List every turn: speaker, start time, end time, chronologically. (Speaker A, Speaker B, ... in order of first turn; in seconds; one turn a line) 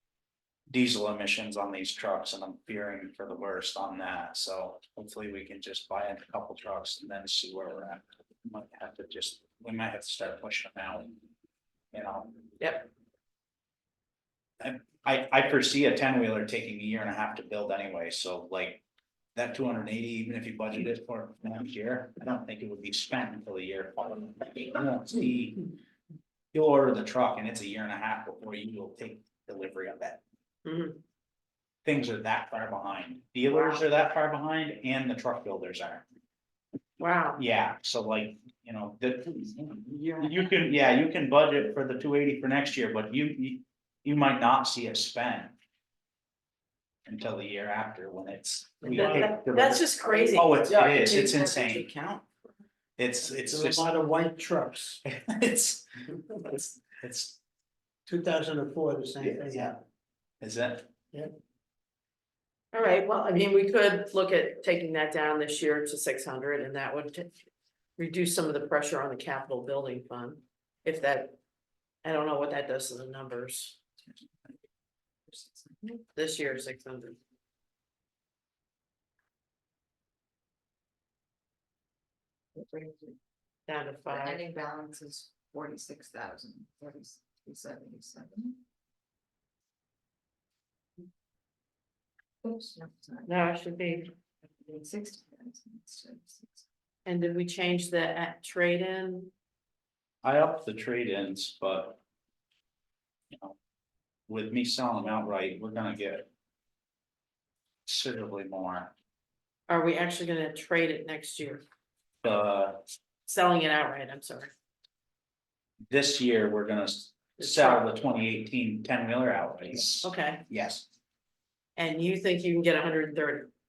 Speaker A: 0.7-11.1
Speaker A: 11.9-12.4
Speaker B: 12.6-12.9
Speaker A: 14.6-18.8
Speaker A: 19.3-25.6
Speaker A: 26.5-30.2
Speaker B: 30.6-31.0
Speaker A: 31.8-36.0
Speaker B: 33.5-33.8
Speaker B: 37.0-37.4
Speaker A: 37.4-45.5
Speaker A: 47.0-51.9
Speaker B: 48.8-52.2
Speaker C: 48.9-49.3
Speaker C: 50.7-51.5
Speaker A: 53.0-53.9
Speaker C: 53.3-55.0
Speaker A: 55.0-55.8
Speaker A: 56.5-57.4
Speaker C: 58.0-59.8
Speaker A: 59.2-59.7
Speaker A: 60.4-60.9
Speaker B: 62.7-67.3
Speaker B: 68.0-71.3
Speaker B: 72.0-73.8
Speaker D: 75.3-76.0
Speaker B: 76.1-77.2
Speaker D: 82.5-83.2
Speaker B: 83.7-84.5
Speaker D: 84.1-88.6
Speaker D: 92.4-93.4
Speaker B: 93.2-94.1
Speaker D: 94.4-96.6
Speaker B: 97.0-99.3
Speaker A: 100.2-102.0
Speaker A: 103.3-103.6
Speaker A: 104.3-106.3
Speaker A: 107.8-108.9
Speaker B: 109.7-111.6
Speaker A: 112.2-112.8
Speaker B: 113.2-114.5
Speaker A: 115.9-120.9
Speaker B: 117.4-117.8
Speaker B: 120.0-120.4
Speaker B: 121.8-123.5